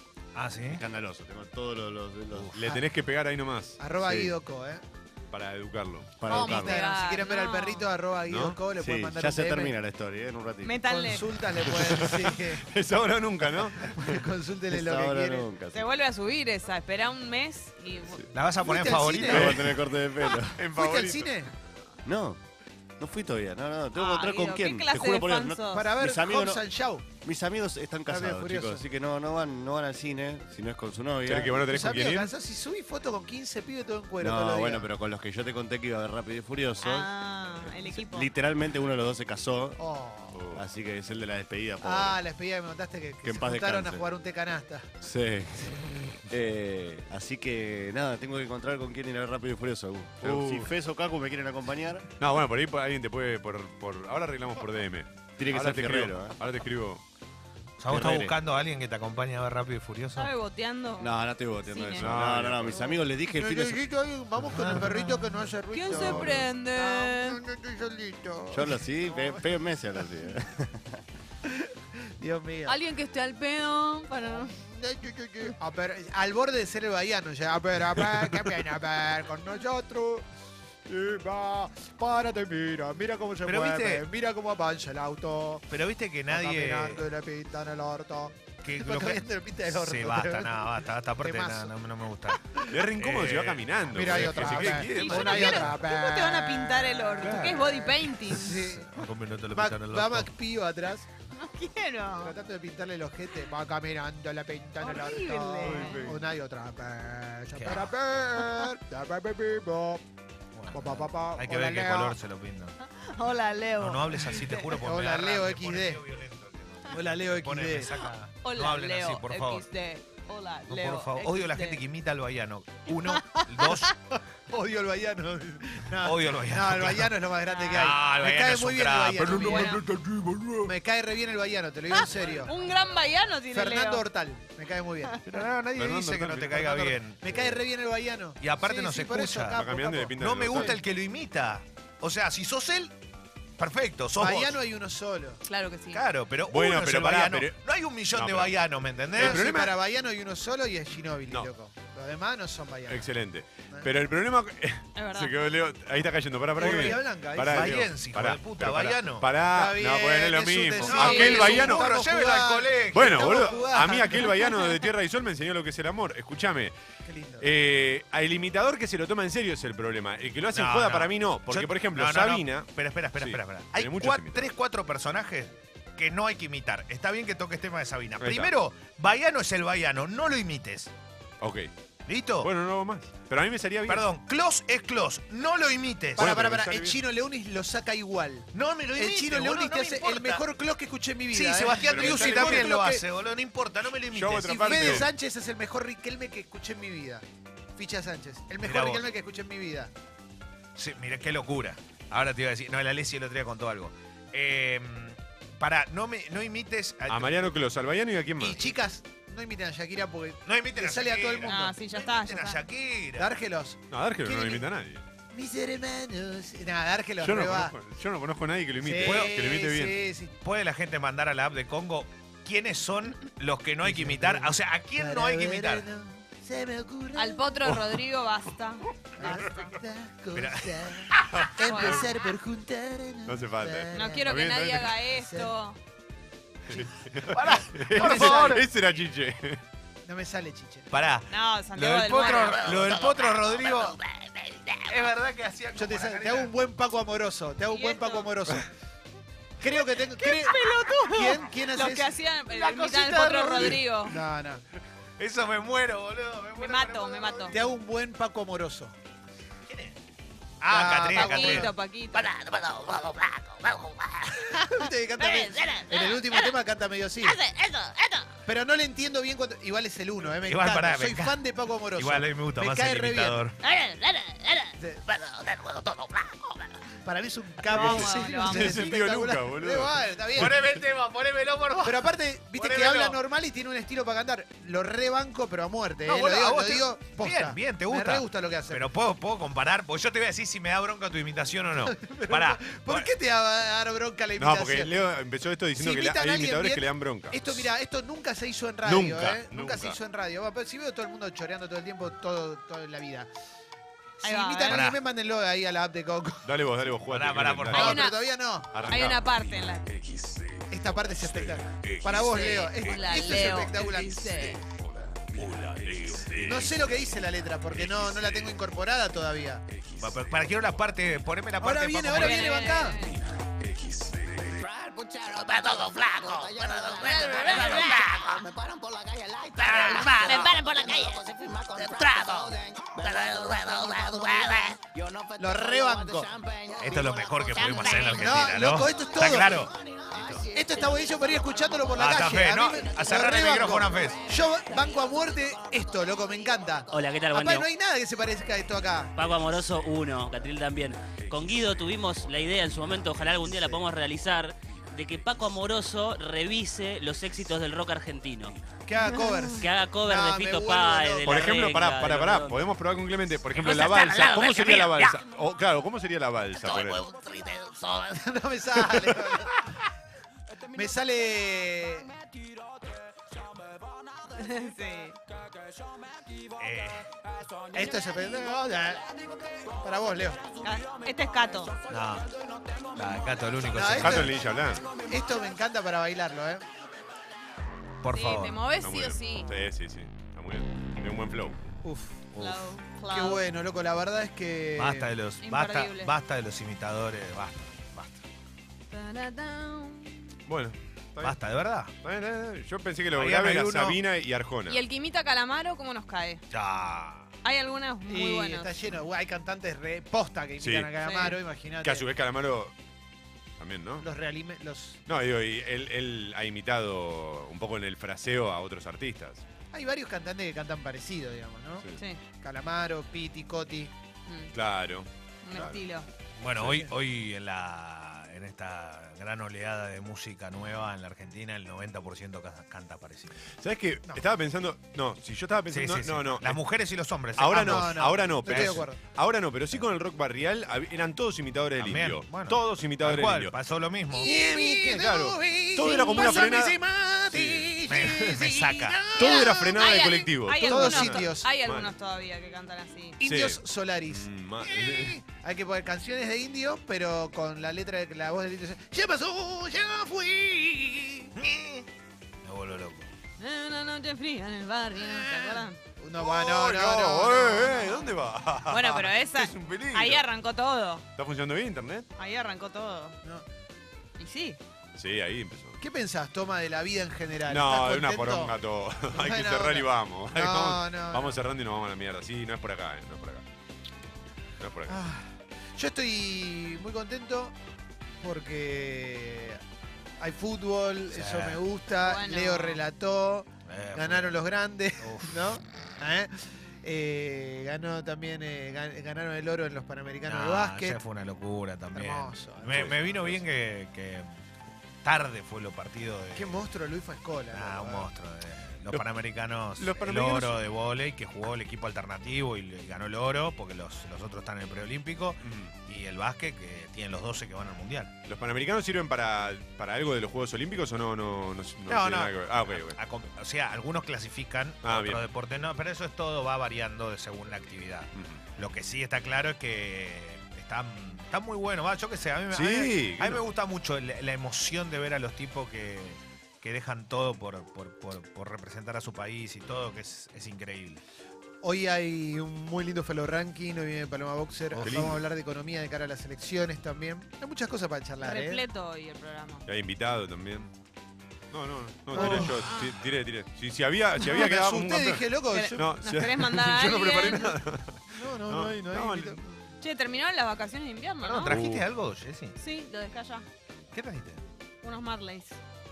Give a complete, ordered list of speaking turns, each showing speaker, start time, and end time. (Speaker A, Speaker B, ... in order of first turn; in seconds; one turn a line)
Speaker A: 0.3-0.8
Speaker B: 0.7-2.5
Speaker C: 2.5-3.8
Speaker D: 3.8-4.8
Speaker B: 4.0-4.3
Speaker C: 5.3-6.3
Speaker B: 6.2-6.8
Speaker E: 6.3-7.9
Speaker D: 6.3-9.7
Speaker C: 8.3-8.6
Speaker B: 8.8-10.8
Speaker E: 10.6-11.3
Speaker D: 10.8-12.7
Speaker C: 11.6-14.3
Speaker D: 13.8-15.5
Speaker B: 14.7-15.9
Speaker E: 15.7-18.2
Speaker A: 18.3-19.6
Speaker D: 18.6-19.6
Speaker C: 19.3-19.9
Speaker B: 19.3-20.6
Speaker C: 20.6-21.3
Speaker D: 20.7-21.5
Speaker B: 22.0-22.4
Speaker B: 23.0-26.6
Speaker E: 23.9-25.9
Speaker D: 25.7-27.1
Speaker B: 27.1-31.6
Speaker D: 28.1-28.8
Speaker C: 31.2-32.3
Speaker D: 31.5-34.9
Speaker B: 34.2-37.1
Speaker E: 36.8-38.3
Speaker B: 37.6-39.8
Speaker D: 39.8-40.5
Speaker C: 40.3-40.6
Speaker B: 40.5-42.2
Speaker D: 41.8-44.9
Speaker B: 43.2-44.0
Speaker B: 45.0-52.1
Speaker C: 50.2-50.7
Speaker C: 52.2-57.0
Speaker B: 55.4-56.4
Speaker A: 57.8-60.3
Speaker B: 57.9-58.4
Speaker E: 60.1-62.1
Speaker B: 61.0-63.8
Speaker C: 62.0-63.0
Speaker D: 63.3-69.5
Speaker A: 64.5-65.4
Speaker E: 65.7-67.4
Speaker B: 65.9-66.5
Speaker B: 68.5-71.0
Speaker D: 71.4-72.8
Speaker E: 72.7-74.5
Speaker D: 74.2-80.3
Speaker D: 80.8-85.8
Speaker A: 83.4-84.0
Speaker A: 85.7-87.0
Speaker D: 86.3-91.7
Speaker A: 88.6-94.8
Speaker C: 92.7-95.7
Speaker D: 93.9-101.1
Speaker E: 94.8-98.7
Speaker A: 97.2-97.6
Speaker A: 98.4-100.3
Speaker E: 101.3-102.3
Speaker D: 102.2-110.0
Speaker E: 104.8-106.0
Speaker C: 105.6-106.2
Speaker A: 107.5-107.9
Speaker A: 110.5-112.7
Speaker D: 110.7-112.2
Speaker E: 112.8-114.7
Speaker A: 113.8-119.6
Speaker D: 114.7-116.0
Speaker D: 116.9-118.0
Speaker E: 118.4-121.8
Speaker A: 120.7-123.9
Speaker E: 123.0-123.9
Speaker D: 124.1-129.8
Speaker A: 126.0-127.1
Speaker E: 127.5-127.8
Speaker A: 127.7-129.8
Speaker C: 129.2-130.7
Speaker E: 129.3-129.8
Speaker D: 130.6-132.6
Speaker E: 131.9-134.1
Speaker D: 133.5-135.2
Speaker A: 135.2-137.4
Speaker C: 135.7-137.0
Speaker D: 137.2-140.7
Speaker A: 138.4-139.6
Speaker C: 139.5-140.8
Speaker A: 140.1-142.9
Speaker A: 143.6-144.6
Speaker D: 144.2-145.4
Speaker E: 145.4-146.0
Speaker A: 145.9-149.4
Speaker C: 146.5-147.6
Speaker C: 148.1-149.7
Speaker D: 149.1-153.1
Speaker C: 152.9-161.9
Speaker E: 154.9-155.3
Speaker D: 156.6-157.8
Speaker A: 156.6-159.3
Speaker D: 159.5-164.4
Speaker A: 160.8-163.9
Speaker E: 160.9-161.5
Speaker C: 162.9-166.7
Speaker E: 164.4-164.7
Speaker D: 167.0-167.5
Speaker C: 167.4-174.5
Speaker A: 170.5-180.9
Speaker C: 178.2-178.5
Speaker C: 181.4-181.7
Speaker A: 182.1-182.5
Speaker C: 182.4-184.1
Speaker A: 183.9-186.3
Speaker D: 186.2-193.0
Speaker C: 186.2-187.0
Speaker A: 188.5-190.4
Speaker A: 191.3-195.1
Speaker C: 191.8-192.8
Speaker C: 194.0-195.1
Speaker D: 194.5-199.9
Speaker A: 198.6-199.0
Speaker A: 200.8-207.5
Speaker C: 207.1-208.6
Speaker D: 208.4-211.7
Speaker A: 210.4-213.3
Speaker E: 211.4-212.6
Speaker D: 213.2-214.7
Speaker C: 213.9-215.0
Speaker D: 215.3-217.7
Speaker C: 217.2-220.0
Speaker D: 218.8-220.3
Speaker A: 219.0-219.3
Speaker A: 220.4-225.9
Speaker D: 223.8-227.7
Speaker E: 227.1-228.8
Speaker D: 229.2-234.4
Speaker C: 229.2-229.6
Speaker A: 230.3-231.2
Speaker C: 231.3-231.9
Speaker E: 231.5-232.1
Speaker C: 233.2-235.0
Speaker E: 233.9-235.8
Speaker D: 235.1-235.5
Speaker C: 236.7-239.6
Speaker A: 237.3-238.7
Speaker D: 237.9-238.7
Speaker D: 240.0-240.9
Speaker A: 240.9-244.0
Speaker E: 241.3-242.7
Speaker F: 242.2-244.9
Speaker A: 244.9-246.5
Speaker D: 245.7-248.7
Speaker E: 247.7-248.3
Speaker D: 249.6-252.2
Speaker E: 250.0-254.2
Speaker A: 252.5-253.8
Speaker D: 253.6-254.6
Speaker A: 255.2-257.6
Speaker E: 256.6-257.5
Speaker D: 257.5-258.9
Speaker A: 259.7-260.0
Speaker A: 260.6-261.7
Speaker D: 260.6-261.7
Speaker E: 261.1-262.3
Speaker F: 262.1-264.6
Speaker D: 264.5-267.4
Speaker F: 265.2-266.5
Speaker F: 267.2-268.3
Speaker D: 268.4-273.4
Speaker A: 270.4-271.4
Speaker A: 271.9-273.6
Speaker F: 273.6-276.7
Speaker D: 274.8-275.0
Speaker D: 277.0-280.6
Speaker E: 277.6-278.8
Speaker C: 277.7-280.8
Speaker A: 280.4-283.2
Speaker D: 281.8-288.8
Speaker A: 286.0-293.0
Speaker D: 291.8-294.9
Speaker C: 294.4-297.5
Speaker D: 295.8-303.3
Speaker C: 298.8-300.0
Speaker D: 304.2-306.5
Speaker E: 304.2-304.8
Speaker A: 304.7-305.0
Speaker C: 306.4-308.1
Speaker A: 307.1-308.0
Speaker D: 307.7-308.8
Speaker E: 307.7-308.2
Speaker C: 308.7-309.3
Speaker E: 308.9-309.9
Speaker D: 310.7-314.5
Speaker C: 311.3-311.6
Speaker E: 312.1-314.6
Speaker A: 315.3-316.6
Speaker C: 316.0-316.8
Speaker D: 316.4-319.6
Speaker C: 317.8-318.5
Speaker A: 320.0-322.7
Speaker D: 321.6-323.1
Speaker E: 322.1-323.2
Speaker G: 324.0-347.0
Speaker F: 325.4-328.5
Speaker E: 326.9-328.0
Speaker F: 329.6-334.8
Speaker D: 335.4-336.3
Speaker A: 336.8-340.4
Speaker F: 337.5-338.3
Speaker D: 338.1-339.6
Speaker D: 340.5-349.1
Speaker A: 341.9-344.2
Speaker F: 346.9-347.7
Speaker F: 349.1-358.6
Speaker D: 358.9-361.5
Speaker E: 359.1-359.5
Speaker F: 359.6-362.6
Speaker C: 361.2-367.1
Speaker F: 363.5-365.2
Speaker F: 366.6-368.2
Speaker D: 368.1-369.6
Speaker D: 370.7-372.1
Speaker E: 374.3-375.2
Speaker A: 376.6-377.1
Speaker D: 377.7-379.1
Speaker D: 379.8-380.4
Speaker E: 380.6-381.8
Speaker A: 381.9-382.3
Speaker A: 382.9-384.4
Speaker D: 383.6-384.4
Speaker C: 383.9-384.9
Speaker D: 385.0-386.6
Speaker A: 388.0-388.6
Speaker E: 388.1-389.5
Speaker C: 388.8-391.7
Speaker D: 391.8-392.3
Speaker A: 392.4-392.7
Speaker E: 392.4-393.4
Speaker D: 393.1-395.1
Speaker A: 394.8-398.2
Speaker E: 395.4-396.1
Speaker E: 398.9-400.3
Speaker C: 400.5-401.4
Speaker A: 401.2-401.9
Speaker C: 402.0-404.8
Speaker A: 403.1-404.0
Speaker E: 404.7-406.4
Speaker A: 406.5-407.3
Speaker E: 407.4-408.7
Speaker D: 408.1-412.0
Speaker C: 410.6-410.9
Speaker E: 411.0-411.3
Speaker C: 411.8-412.7
Speaker C: 413.6-414.1
Speaker D: 414.0-415.0
Speaker C: 415.1-419.4
Speaker D: 419.7-421.9
Speaker D: 422.4-423.9
Speaker E: 424.3-424.5
Speaker C: 424.5-425.8
Speaker E: 425.4-426.1
Speaker A: 426.4-433.3
Speaker C: 426.6-426.8
Speaker C: 433.6-436.6
Speaker A: 435.7-438.8
Speaker C: 437.4-443.6
Speaker D: 437.5-439.0
Speaker A: 441.8-444.3
Speaker D: 444.1-449.8
Speaker C: 444.2-448.4
Speaker A: 447.9-449.0
Speaker C: 449.1-451.9
Speaker E: 449.2-453.2
Speaker D: 450.6-451.5
Speaker D: 453.2-461.3
Speaker C: 453.2-455.2
Speaker A: 461.4-461.9
Speaker A: 462.4-463.1
Speaker E: 463.4-465.8
Speaker D: 464.9-468.0
Speaker C: 466.2-470.2
Speaker E: 467.8-468.1
Speaker E: 468.7-471.0
Speaker C: 471.1-472.1
Speaker E: 472.2-473.2
Speaker E: 474.2-474.6
Speaker C: 474.9-475.8
Speaker D: 475.8-478.6
Speaker C: 477.5-483.4
Speaker D: 479.1-481.4
Speaker C: 484.6-485.0
Speaker D: 484.9-487.5
Speaker D: 488.2-489.6
Speaker D: 490.2-501.0
Speaker A: 491.1-491.6
Speaker E: 492.0-492.8
Speaker A: 493.7-494.4
Speaker A: 495.0-495.4
Speaker A: 500.2-504.3
Speaker D: 501.9-503.3
Speaker C: 502.7-503.4
Speaker A: 505.0-506.6
Speaker D: 506.3-508.1
Speaker A: 507.5-518.1
Speaker C: 509.8-510.6
Speaker C: 515.4-515.7
Speaker C: 518.2-523.0
Speaker A: 521.9-541.0
Speaker C: 524.8-525.2
Speaker C: 528.1-528.4
Speaker C: 532.5-533.5
Speaker D: 541.6-548.6
Speaker A: 544.7-545.1
Speaker C: 544.8-545.2
Speaker E: 548.2-549.6
Speaker C: 549.7-550.7
Speaker C: 551.5-559.4
Speaker D: 552.1-552.7
Speaker E: 552.2-553.0
Speaker D: 554.2-555.9
Speaker E: 555.5-557.5
Speaker D: 558.1-559.4
Speaker E: 559.8-561.6
Speaker A: 561.2-562.5
Speaker C: 561.5-561.9
Speaker E: 562.6-563.5
Speaker A: 563.9-564.4
Speaker E: 564.8-565.6